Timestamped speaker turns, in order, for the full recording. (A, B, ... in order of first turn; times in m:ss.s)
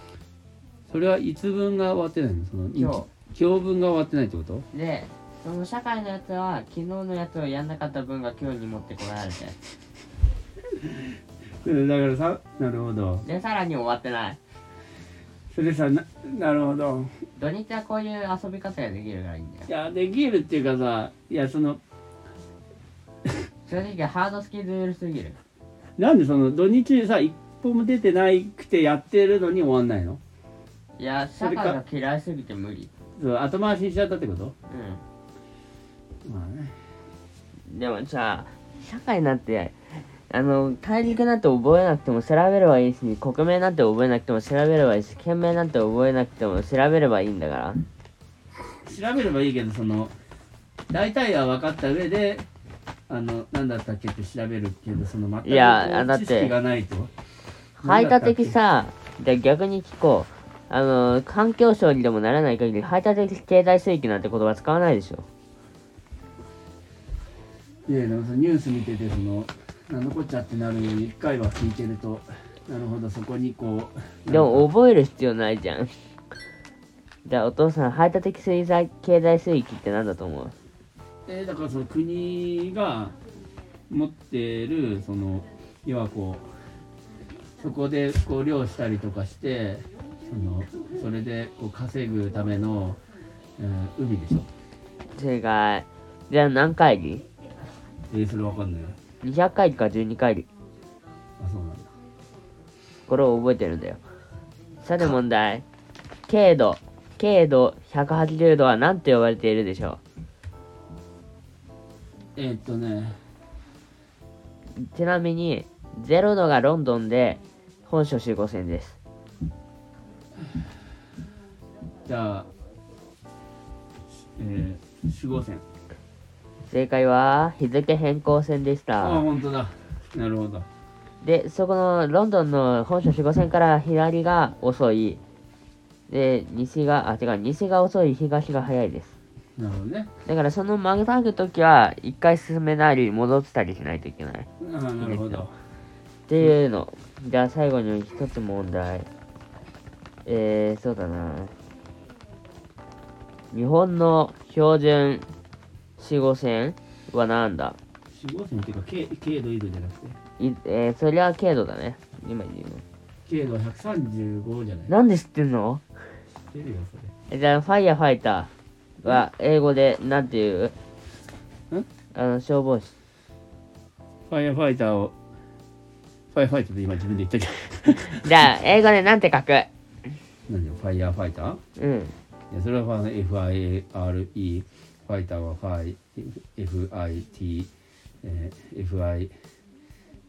0:00.9-0:04.7 A
0:02.7-0:03.1 B
0:04.7-0:09.6 B
0:10.7-0:13.2 A
0:13.2-0:14.4 B
0:15.5-0:17.1 A
0:17.4-0:19.7 B
0:19.7-0:21.8 A
0:23.6-0:25.4 B
0:26.0-0:30.2 A
0:31.0-0:32.9 B
0:31.4-0:31.8 A
0:33.2-0:34.5 A
0:34.7-0:35.0 B
0:36.2-0:36.8 A
0:37.7-0:47.8 B
0:48.8-0:50.1 A
0:50.9-0:52.5 A
0:53.1-0:57.1 A
0:55.4-0:56.5 B
0:57.8-1:05.3 B
0:57.8-0:58.6 A
1:07.8-1:14.7 A
1:14.3-1:15.9 B
1:17.2-1:20.5 B
1:21.3-1:23.2 A
1:23.9-1:26.5 A
1:27.6-1:33.0 A
1:33.6-1:34.5 A
1:35.1-1:37.2 B
1:38.1-1:39.0 A
1:39.2-1:40.5 B
1:41.4-1:41.9 A
1:43.1-1:44.0 B
1:44.8-1:45.6 B
1:46.3-1:50.0 B
1:52.4-1:53.2 A
1:54.8-1:59.0 B
2:02.0-2:02.5 A
2:04.3-2:05.6 A
2:06.7-2:09.2 B
2:09.0-2:10.7 A
2:11.2-2:15.2 B
2:16.1-2:19.2 B
2:19.6-2:20.1 A
2:20.2-2:24.5 B
2:24.6-2:25.5 A
2:25.0-2:25.4 B
2:26.3-2:29.1 B
2:30.2-2:31.5 B
2:33.5-2:35.3 B
2:36.0-2:37.8 B
2:38.1-2:40.2 A
2:40.4-2:42.8 B
2:43.2-2:44.9 A
2:44.9-2:45.8 B
2:46.4-2:47.1 A
2:47.3-2:50.7 B
2:52.1-2:52.9 B
2:54.3-2:55.1 A
2:56.3-2:58.2 A
2:58.1-2:59.7 B
3:00.5-3:01.6 A
3:01.8-3:02.1 B
3:02.5-3:07.7 A
3:08.2-3:09.3 A